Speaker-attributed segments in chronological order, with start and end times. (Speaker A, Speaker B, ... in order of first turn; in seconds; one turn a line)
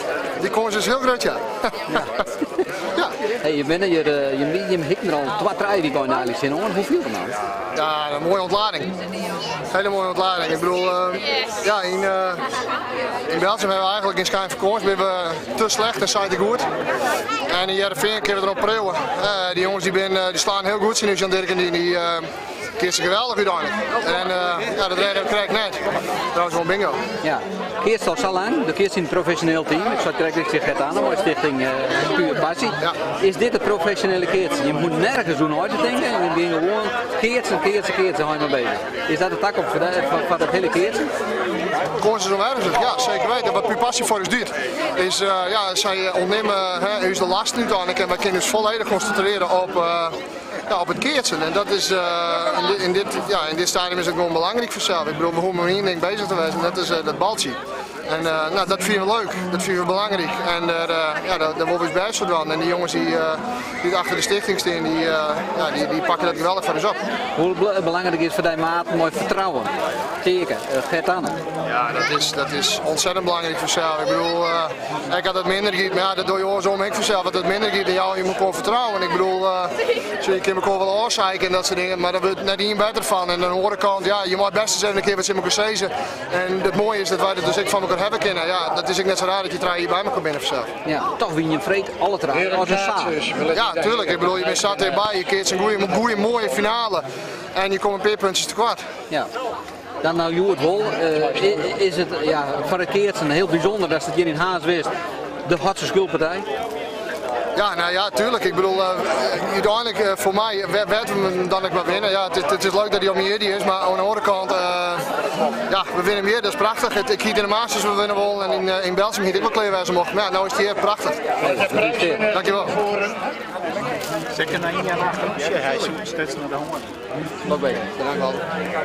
Speaker A: 0.4-2.1
Speaker B: 2.0-2.3
Speaker B: 3.3-7.4
Speaker A: 7.8-8.9
Speaker A: 9.7-12.5
Speaker A: 13.3-16.7
Speaker A: 17.5-27.0
Speaker B: 27.2-41.1
Speaker A: 42.0-67.0
Speaker B: 67.3-71.4
Speaker A: 71.7-90.7
Speaker B: 90.8-93.4
Speaker A: 93.5-98.9
Speaker B: 100.0-104.9
Speaker B: 105.4-106.5
Speaker A: 107.5-115.1
Speaker A: 115.7-121.2
Speaker B: 121.4-122.3
Speaker A: 122.3-122.8
Speaker C: 124.3-126.9
Speaker A: 127.5-128.4